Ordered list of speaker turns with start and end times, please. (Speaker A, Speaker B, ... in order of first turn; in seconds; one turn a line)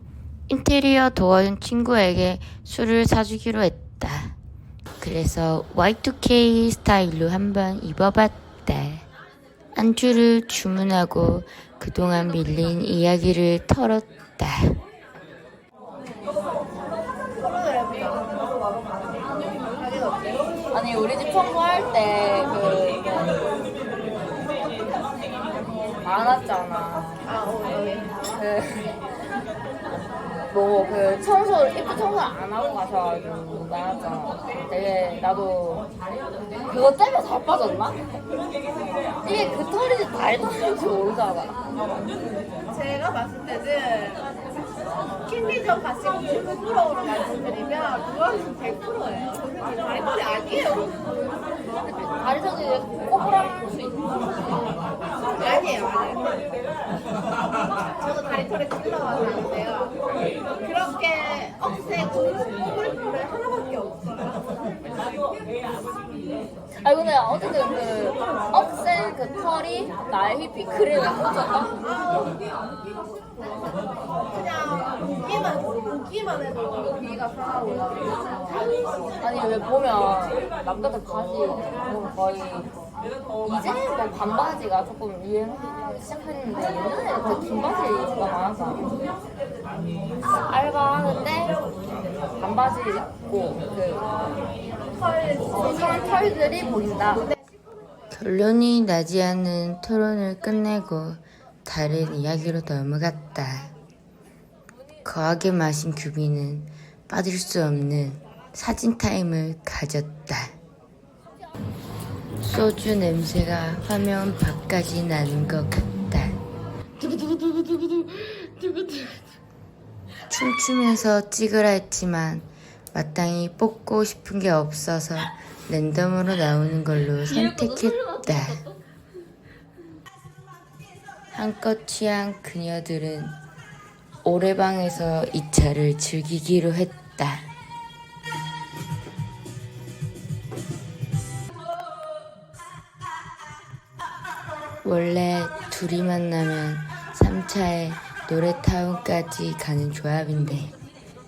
Speaker A: 0.5-4.4
Speaker A: 5.0-9.1
Speaker A: 9.8-14.8
Speaker B: 17.4-18.3
Speaker B: 19.7-20.6
Speaker C: 20.7-23.4
Speaker C: 26.0-27.2
Speaker B: 27.2-28.2
Speaker C: 28.3-29.0
Speaker C: 30.5-35.9
Speaker C: 36.7-38.0
Speaker C: 39.2-41.6
Speaker B: 42.7-44.2
Speaker B: 45.2-51.0
Speaker C: 51.8-54.0
Speaker B: 55.4-56.3
Speaker B: 58.0-60.0
Speaker B: 60.6-64.3
Speaker C: 66.8-71.8
Speaker B: 71.8-72.4
Speaker B: 74.3-78.2
Speaker C: 79.2-82.7
Speaker C: 83.4-88.9
Speaker C: 90.2-91.6
Speaker C: 92.4-94.1
Speaker B: 95.1-96.4
Speaker C: 95.4-97.3
Speaker A: 98.1-103.7
Speaker A: 105.0-110.6
Speaker A: 112.4-116.4
Speaker C: 117.0-119.2
Speaker A: 120.3-128.7
Speaker C: 127.4-128.6
Speaker A: 131.3-133.4
Speaker A: 134.2-137.5
Speaker A: 144.8-150.8